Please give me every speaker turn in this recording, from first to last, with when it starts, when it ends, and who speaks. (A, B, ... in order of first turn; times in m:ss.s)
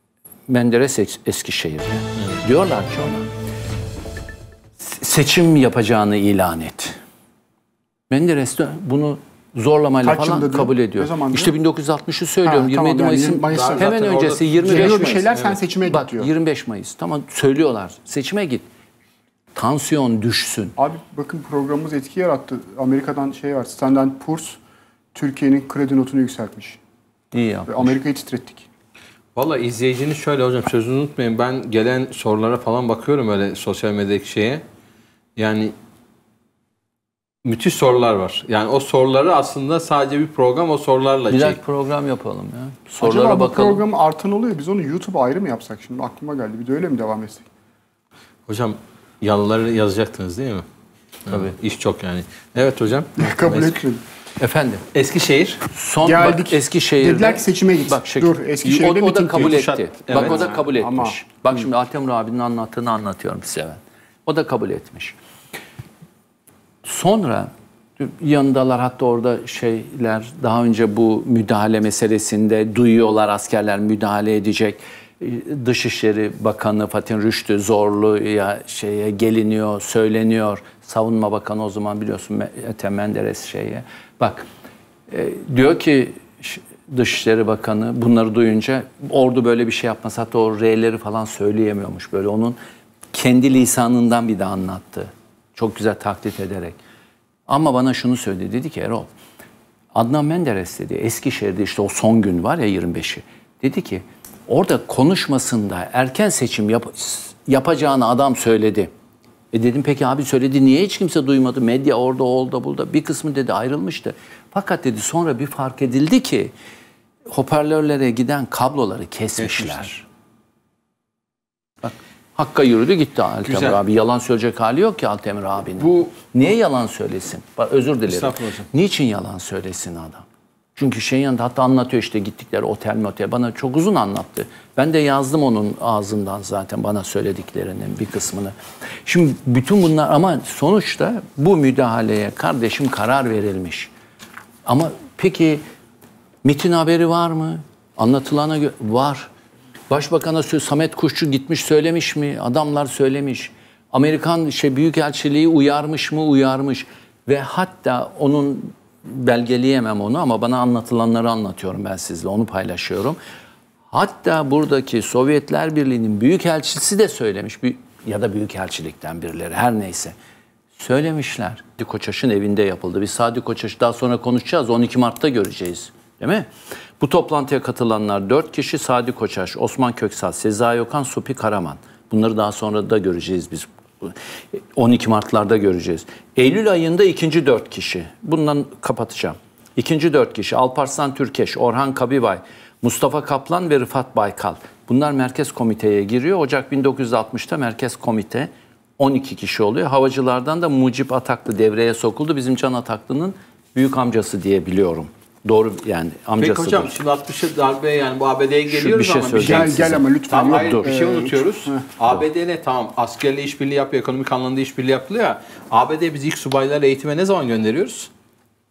0:00.5-0:03.3 A
0:04.8-0:07.0 A
0:08.1-0:15.3 A
0:10.0-0:11.5 B
0:12.4-0:13.9 B
0:13.5-0:15.6 C
0:14.6-0:16.3 B
0:15.8-0:18.6 A
0:19.5-0:20.8 A
0:20.8-0:24.6 B
0:25.1-0:26.8 B
0:27.3-0:27.9 A
0:27.7-0:28.7 B
0:29.4-0:34.6 C
0:35.4-0:35.7 C
0:37.4-0:41.6 C
0:41.3-0:43.8 A
0:43.0-0:47.4 B
0:48.5-0:50.6 C
0:51.3-0:53.8 C
0:53.2-0:54.0 B
0:54.4-0:54.8 A
0:54.9-0:55.6 C
0:55.7-1:05.2 A
0:56.0-1:01.2 B
0:59.4-1:00.6 C
1:06.8-1:24.5 A
1:25.1-1:32.6 A
1:33.1-1:36.8 A
1:37.5-1:39.1 A
1:39.9-1:48.9 A
1:49.5-1:56.5 A
1:57.3-2:00.0 A
1:59.4-1:59.9 C
2:01.8-2:10.2 A
2:03.4-2:03.8 C
2:05.8-2:06.1 C
2:08.1-2:08.7 C
2:10.8-2:18.5 A
2:19.0-2:23.9 A
2:24.6-2:25.6 A
2:26.4-2:29.3 A
2:29.9-2:43.2 A
2:43.9-2:50.1 A
2:50.8-2:56.5 A
2:57.0-3:26.9 A
3:26.4-3:38.1 C
3:28.7-3:30.9 A
3:29.4-3:31.8 B